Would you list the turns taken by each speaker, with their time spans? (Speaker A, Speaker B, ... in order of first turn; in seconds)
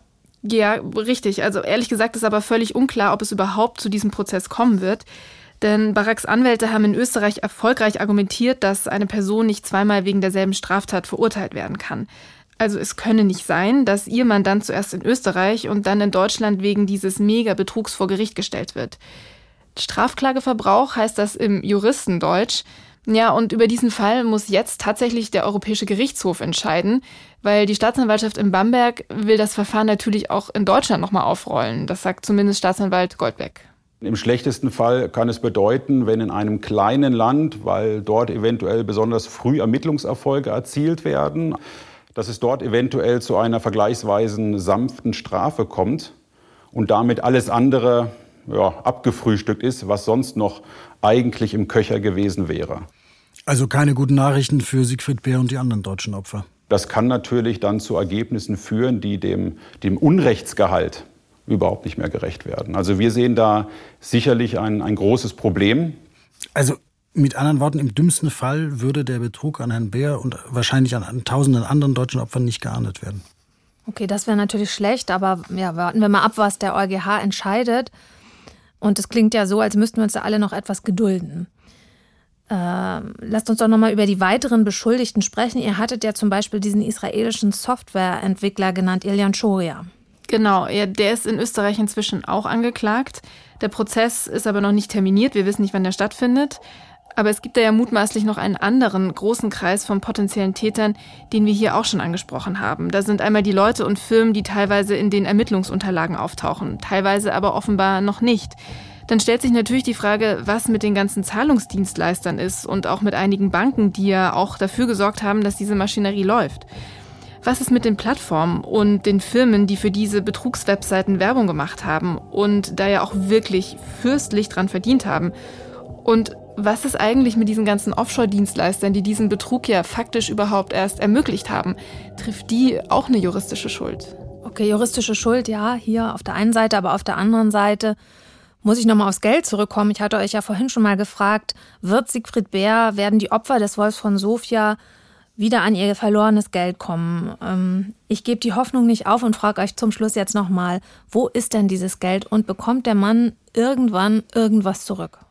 Speaker A: 0.4-5.1, 5.6-12.1, 12.6-19.0, 19.8-33.7, 90.3-96.6, 97.2-116.7, 117.4-125.3, 126.0-134.1
Speaker B: 34.0-41.6, 42.1-46.1, 46.7-52.9, 56.7-66.0
Speaker C: 53.5-56.5, 66.5-73.2
Speaker D: 73.9-77.9, 78.8-81.5, 82.5-89.9, 134.4-138.0, 138.6-144.8, 145.4-155.2